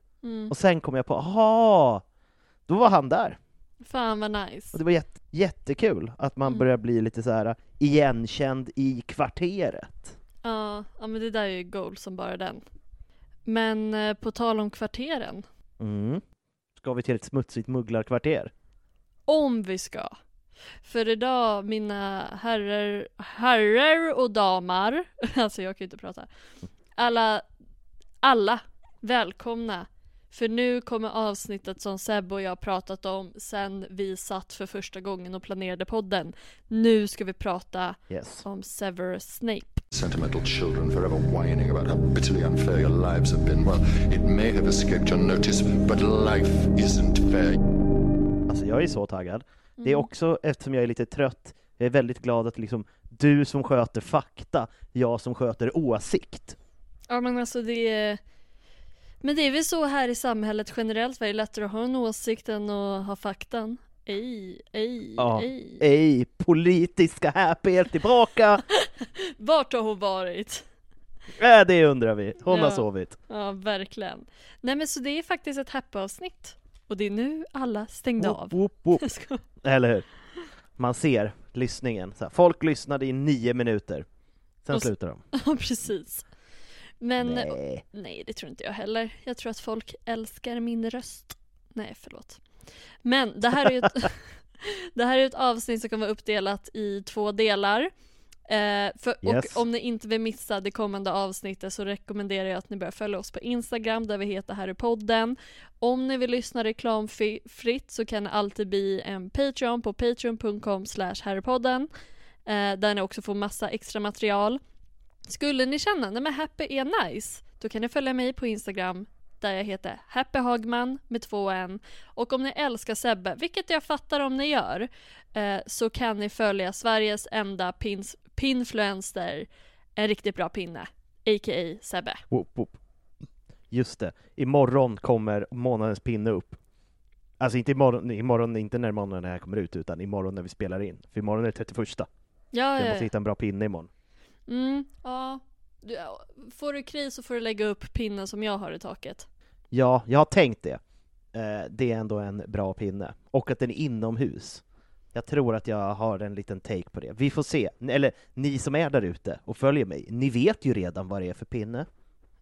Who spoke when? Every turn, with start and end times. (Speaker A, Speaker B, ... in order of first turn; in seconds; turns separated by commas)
Speaker A: 0.2-0.5, Speaker B: 0.5-2.0, Speaker B: 2.7-3.4, Speaker A: 3.8-4.8, Speaker B: 4.7-10.2, Speaker A: 10.4-12.6, Speaker A: 13.4-15.4, Speaker B: 15.8-16.2, Speaker B: 16.8-18.5, Speaker A: 19.3-20.2, Speaker A: 20.8-26.3, Speaker A: 26.9-27.4, Speaker A: 28.2-39.8, Speaker B: 38.1-38.5, Speaker C: 39.9-47.6, Speaker B: 48.5-56.5, Speaker A: 49.8-50.1, Speaker A: 57.1-58.2, Speaker A: 59.2-65.8, Speaker B: 65.2-68.6, Speaker A: 68.8-70.7, Speaker B: 71.4-73.2, Speaker A: 72.5-79.4, Speaker B: 78.2-79.0, Speaker B: 79.6-80.0, Speaker B: 80.8-84.1, Speaker B: 84.6-85.2, Speaker A: 84.7-86.3, Speaker A: 87.0-92.4, Speaker B: 87.2-87.8, Speaker A: 93.0-97.9, Speaker A: 98.5-111.9, Speaker B: 99.2-99.6, Speaker A: 112.5-114.6, Speaker A: 115.3-132.2, Speaker B: 132.3-132.8, Speaker B: 133.7-136.6, Speaker B: 137.4-142.1, Speaker A: 142.5-143.1, Speaker B: 142.8-143.9, Speaker A: 144.5-149.3, Speaker B: 149.7-150.8, Speaker B: 151.3-154.6, Speaker B: 155.1-161.9